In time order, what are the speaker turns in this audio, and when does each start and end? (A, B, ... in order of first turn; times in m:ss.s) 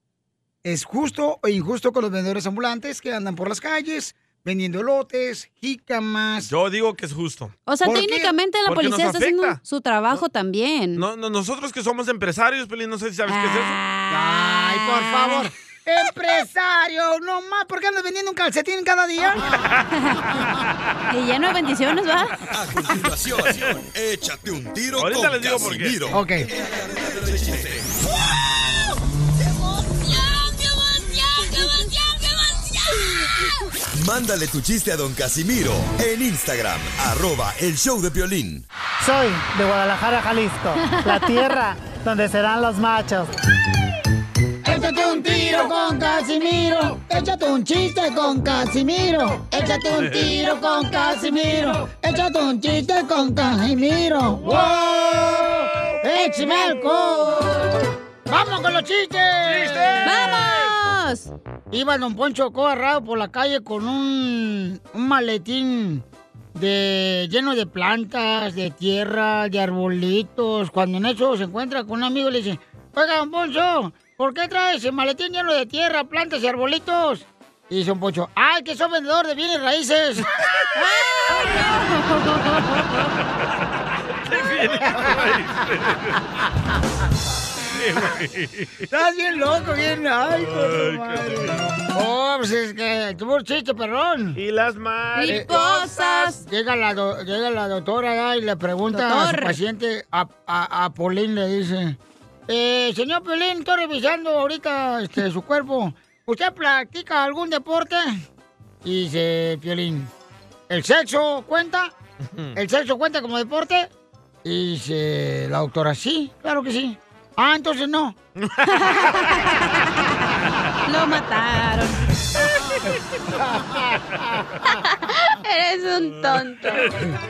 0:00.6-0:06.5 A
0:06.5-0:07.5 B
0:07.7-0:11.0 C
0:07.8-0:08.3 A
0:08.7-0:09.6 B
0:11.0-0:13.8 B
0:13.3-0:15.5 C
0:14.1-0:19.6 A
0:19.9-0:20.3 C
0:21.1-0:22.4 C
0:22.5-0:27.9 D
0:23.5-0:23.8 B
0:25.0-0:26.0 B
0:26.1-0:26.5 A
0:31.3-0:32.1 C
0:34.0-0:38.6 D
0:39.0-0:43.3 E
0:40.8-0:41.5 C
0:44.6-0:57.7 A
0:49.9-0:50.4 B
0:54.4-0:56.0 B
0:56.1-0:57.5 C
0:58.3-1:00.5 A
0:59.4-1:00.7 B
1:00.0-1:01.3 C
1:01.7-1:06.0 A
1:06.6-1:20.3 A
1:20.8-1:23.1 C
1:24.3-1:26.2 B
1:24.9-1:25.2 A
1:27.7-1:28.9 B
1:28.9-1:34.4 A
1:30.3-1:31.7 B
1:34.4-1:35.8 B
1:35.2-1:36.4 C
1:35.3-1:42.0 A
1:38.9-1:39.6 C
1:42.5-1:48.2 A
1:48.8-1:50.1 A
1:50.7-1:51.9 A
1:52.2-1:52.6 B
1:52.6-1:53.9 A
1:54.4-1:58.2 A
1:58.4-1:58.7 B
1:58.7-2:00.1 C
2:00.9-2:02.1 C
2:03.4-2:04.4 A
2:04.7-2:07.0 C
2:06.6-2:07.0 B